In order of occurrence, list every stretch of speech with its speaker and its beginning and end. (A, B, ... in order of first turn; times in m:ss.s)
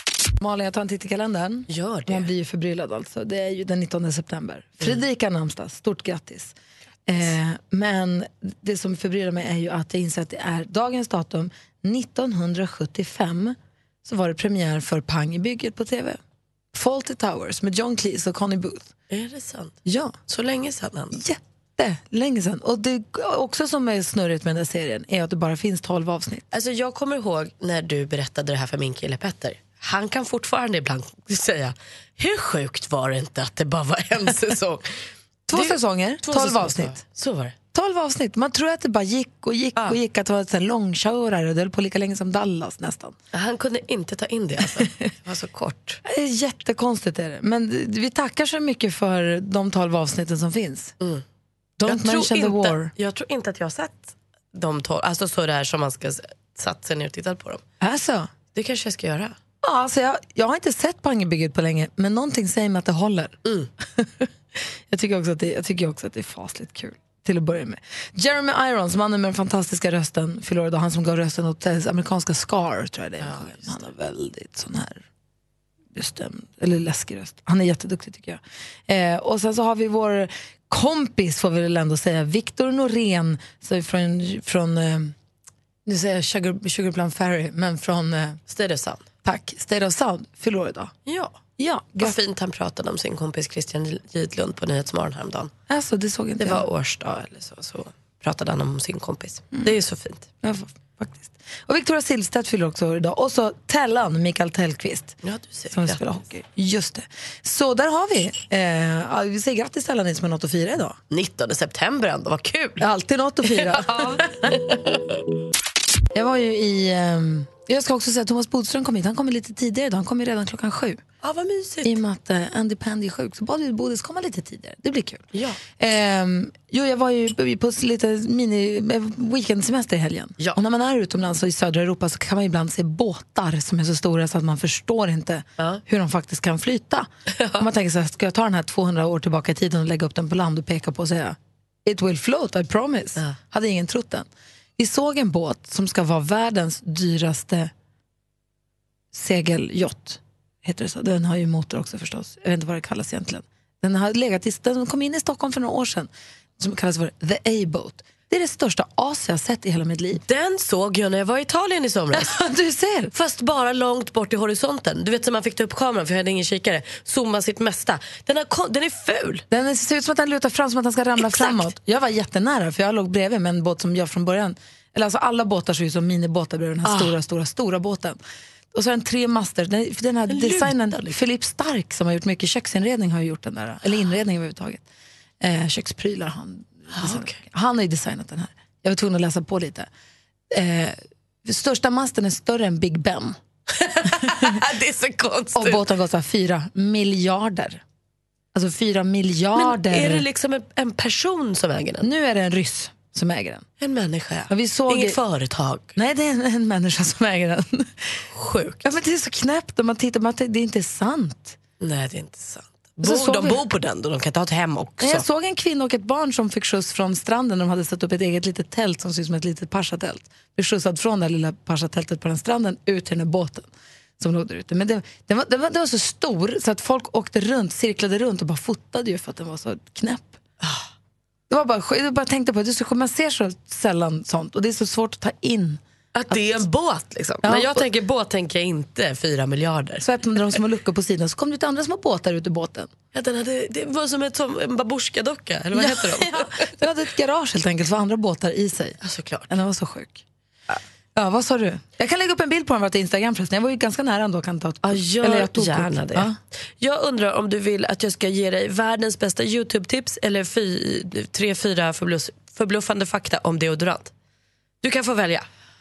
0:00.4-0:06.5 A
0:01.7-0:02.3 B
0:07.1-0:16.2 A
0:16.7-0:18.9 A
0:19.1-0:21.2 B
0:19.8-0:20.2 A
0:21.1-0:26.5 A
0:26.5-0:34.9 B
0:35.5-0:37.0 A
0:35.5-0:37.6 B
0:37.7-0:43.2 A
0:43.3-0:46.0 B
0:46.0-0:51.0 A
0:51.8-0:52.9 A
0:51.8-0:57.6 B
0:57.8-0:58.3 A
0:58.5-0:59.4 B
0:59.6-1:03.4 A
1:04.0-1:04.3 A
1:04.9-1:15.0 A
1:13.2-1:13.6 B
1:15.9-1:25.1 A
1:25.9-1:28.4 A
1:28.5-1:29.1 B
1:29.2-1:30.9 A
1:31.1-1:31.4 B
1:31.6-1:32.2 A
1:32.0-1:35.5 B
1:35.7-1:36.7 A
1:36.4-1:40.3 B
1:40.4-1:45.2 A
1:45.2-1:46.0 B
1:45.7-1:51.0 A
1:51.1-1:52.8 B
1:52.8-1:54.5 A
1:53.4-1:55.0 B
1:56.1-2:01.0 A
2:01.2-2:02.0 B
2:01.8-2:27.7 A
2:05.3-2:05.6 B
2:17.3-2:17.7 B
2:29.1-2:40.2 A
2:40.2-2:42.3 B
2:42.1-2:43.1 A
2:43.1-2:49.4 B
2:49.5-2:58.2 A
2:51.2-2:51.6 B
2:56.8-2:57.1 B
2:58.7-3:04.8 A
3:00.3-3:01.2 B
3:05.4-3:09.9 A
3:06.9-3:07.4 B
3:10.5-3:13.4 A
3:13.7-3:15.8 B
3:14.2-3:14.6 A
3:15.6-3:17.8 A
3:18.5-3:20.2 A
3:19.6-3:22.1 B
3:22.0-3:23.7 A
3:23.8-3:25.9 B
3:24.5-3:25.2 A
3:26.0-3:28.2 A
3:28.3-3:28.8 B
3:28.8-3:31.6 A
3:31.8-3:35.2 B
3:33.0-3:33.6 A
3:35.0-3:50.4 A
3:50.6-3:50.9 B
3:51.5-3:56.6 A
3:56.1-4:00.1 B
3:57.4-3:57.9 A
4:00.0-4:02.9 A
4:03.1-4:06.7 B
4:05.7-4:09.0 A
4:09.0-4:09.5 B
4:09.5-4:10.2 A
4:11.2-4:16.4 A
4:14.8-4:24.1 B
4:24.8-4:25.5 B